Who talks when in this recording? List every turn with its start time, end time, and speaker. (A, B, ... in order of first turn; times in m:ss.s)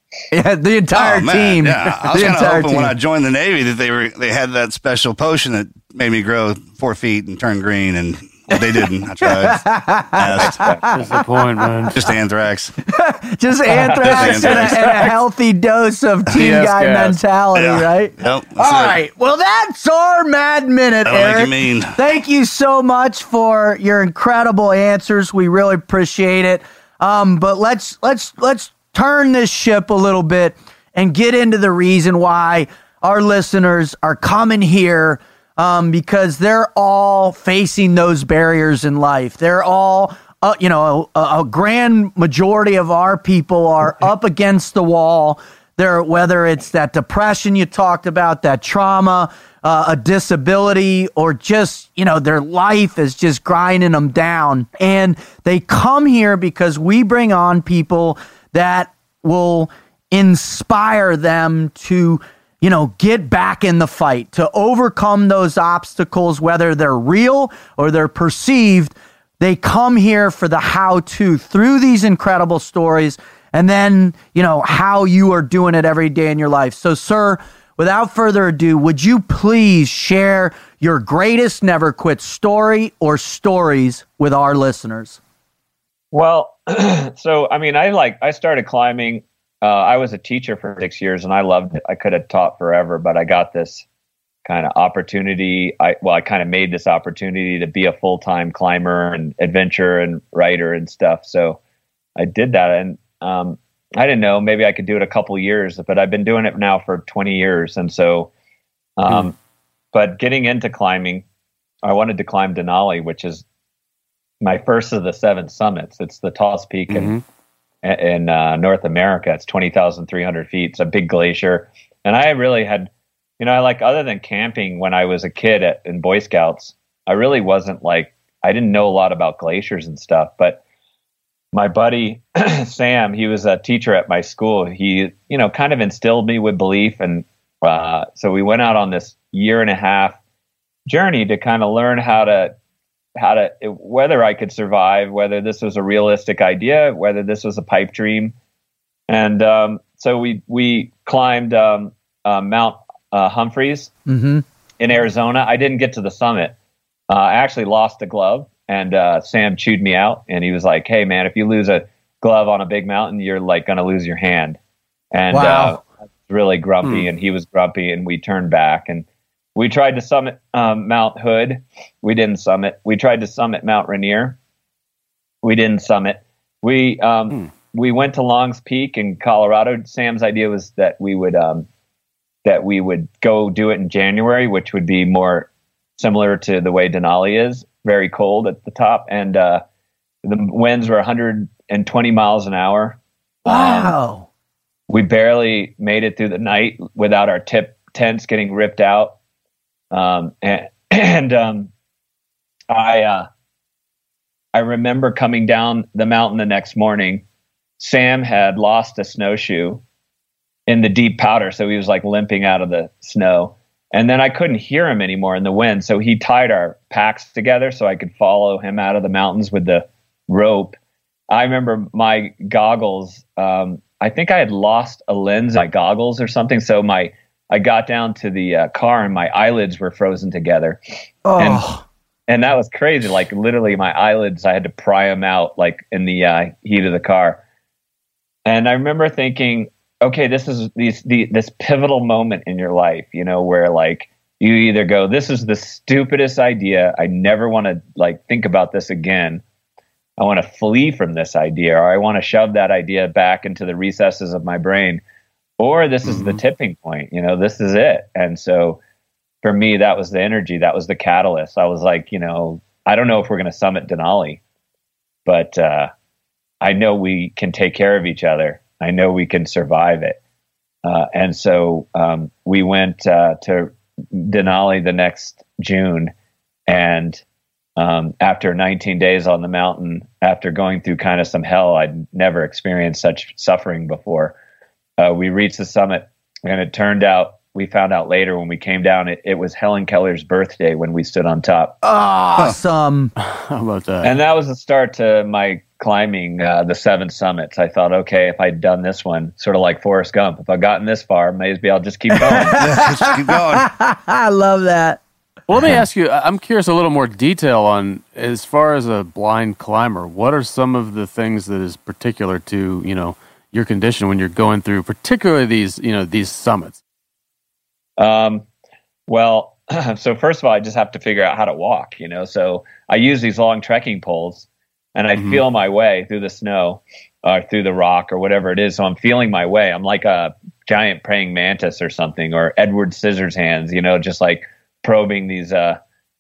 0:00.3-0:03.0 A
0:01.0-0:10.7 B
0:08.7-0:11.1 A
0:10.4-0:10.8 C
0:10.9-0:12.0 D
0:11.9-0:12.8 B
0:12.9-1:25.2 A
0:13.7-0:14.6 C
0:14.0-0:15.2 D
0:14.2-0:15.0 B
0:16.3-0:17.2 D
0:17.5-0:19.0 B
0:21.1-0:22.0 B
1:26.1-1:33.8 C
1:34.4-1:41.6 C
1:42.2-1:48.3 C
1:49.0-1:49.3 C
1:49.9-1:51.2 C
1:51.8-1:53.4 C
1:54.4-1:57.1 C
1:56.9-1:57.2 D
1:57.8-2:10.6 C
2:11.5-2:20.2 C
2:20.9-2:22.5 C
2:23.2-2:28.3 C
2:29.1-2:33.9 C
2:34.1-2:34.4 A
2:34.8-2:36.5 C
2:37.1-2:44.6 C
2:45.1-2:54.4 C
2:45.3-2:45.8 A
2:46.8-2:47.1 D
2:55.4-3:01.7 C
3:02.4-3:09.6 C
3:10.2-3:13.9 C
3:13.5-3:14.3 A
3:14.9-3:19.2 C
3:19.9-3:21.7 C
3:22.7-3:23.3 C
3:24.5-3:27.2 C
3:27.8-3:29.8 C
3:30.7-3:40.8 C
3:41.3-3:50.8 C
3:51.2-3:51.8 A
3:51.4-3:51.6 C
3:52.3-3:57.4 C
3:58.5-4:09.4 C
4:10.2-4:15.0 C
4:15.6-4:18.8 C
4:16.0-4:16.4 D
4:19.4-4:24.4 C
4:25.3-4:25.9 C
4:26.6-4:30.2 C
4:30.8-4:36.1 C
4:36.7-4:37.2 C
4:37.8-4:44.4 C
4:45.0-4:51.8 C
4:51.8-4:53.1 A
4:53.2-4:54.1 D
4:54.0-5:02.6 C
5:02.1-5:05.0 A
5:02.6-5:03.7 B
5:05.5-5:16.8 D
5:18.0-5:18.4 C
5:19.1-5:35.8 C
5:25.2-5:25.4 D